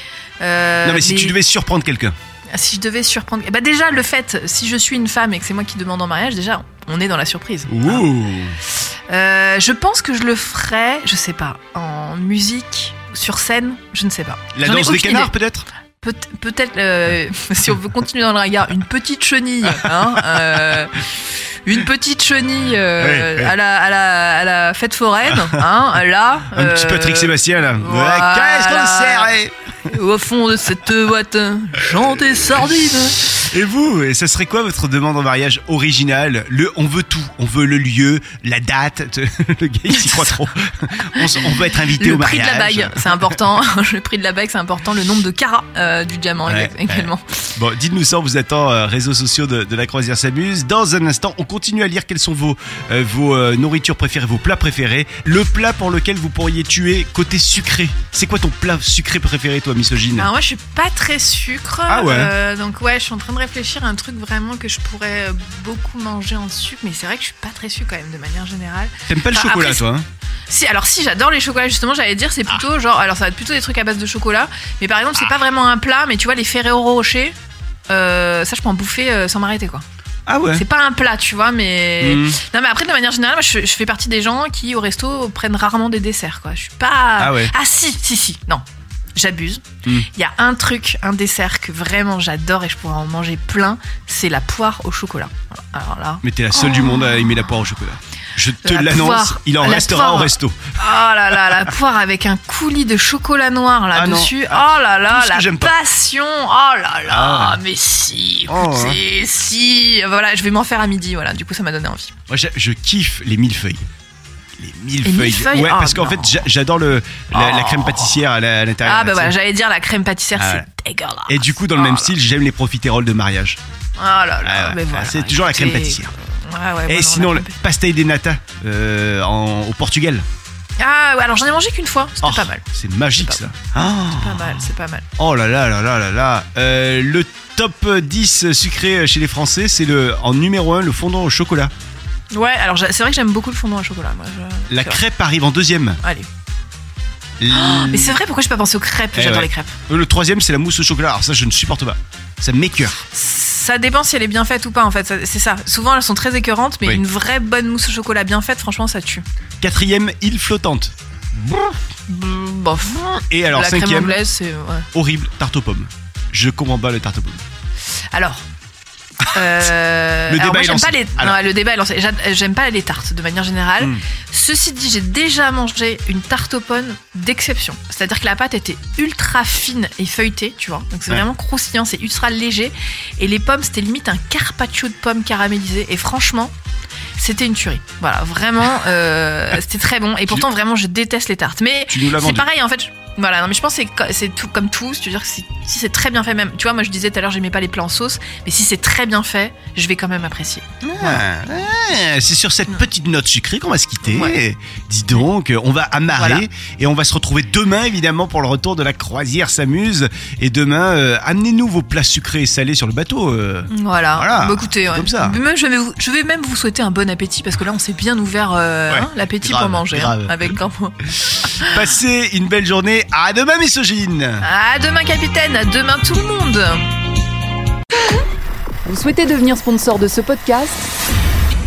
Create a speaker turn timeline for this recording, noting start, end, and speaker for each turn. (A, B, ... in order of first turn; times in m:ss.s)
0:00.4-0:01.4 A
0:00.8-0:02.2 B
0:02.5-0:08.0 A
0:07.7-0:08.6 B
0:09.1-0:15.3 A
0:14.5-0:15.6 B
0:16.0-0:21.0 A
0:21.6-0:29.3 A
0:23.0-0:23.5 B
0:25.3-0:25.6 B
0:26.5-0:29.5 B
0:29.8-0:33.4 A
0:33.3-0:43.4 B
0:39.9-0:40.5 A
0:41.1-0:47.4 A
0:46.4-1:00.3 B
1:00.1-1:09.8 A
1:01.9-1:02.3 B
1:09.1-1:10.0 B
1:10.5-1:17.3 A
1:17.9-1:19.8 A
1:20.3-1:20.6 B
1:20.5-1:28.6 A
1:22.0-1:22.4 B
1:27.2-1:27.5 B
1:29.2-1:37.4 A
1:36.2-1:40.7 B
1:38.6-1:52.1 A
1:41.4-1:41.7 B
1:43.9-1:45.7 B
1:47.1-1:47.6 B
1:48.5-1:49.0 B
1:52.3-1:53.8 B
1:54.6-1:59.3 B
1:55.0-1:56.4 A
1:57.3-1:58.2 A
1:58.8-2:02.1 A
2:00.4-2:00.7 B
2:01.3-2:03.6 B
2:04.0-2:07.6 A
2:04.4-2:06.1 B
2:06.8-2:10.2 B
2:10.8-2:12.6 A
2:12.2-2:14.6 B
2:13.2-2:13.5 A
2:14.1-2:15.0 A
2:15.2-2:21.7 B
2:22.3-2:25.0 A
2:24.7-2:26.0 B
2:26.0-2:26.3 A
2:27.4-2:28.2 B
2:27.5-2:29.8 A
2:29.1-2:33.0 B
2:33.1-2:39.2 A
2:39.6-2:41.8 B
2:42.1-2:44.9 A
2:43.1-2:44.2 B
2:44.9-2:47.4 B
2:48.1-2:48.4 A
2:49.3-3:06.5 A
2:50.3-2:51.4 B
3:07.2-3:21.2 A
3:11.9-3:12.5 B
3:20.8-3:35.4 B
3:24.0-3:24.4 A
3:26.1-3:26.4 A
3:33.7-3:41.8 A
3:38.9-3:44.4 B
3:44.4-3:46.8 A
3:48.8-3:50.9 C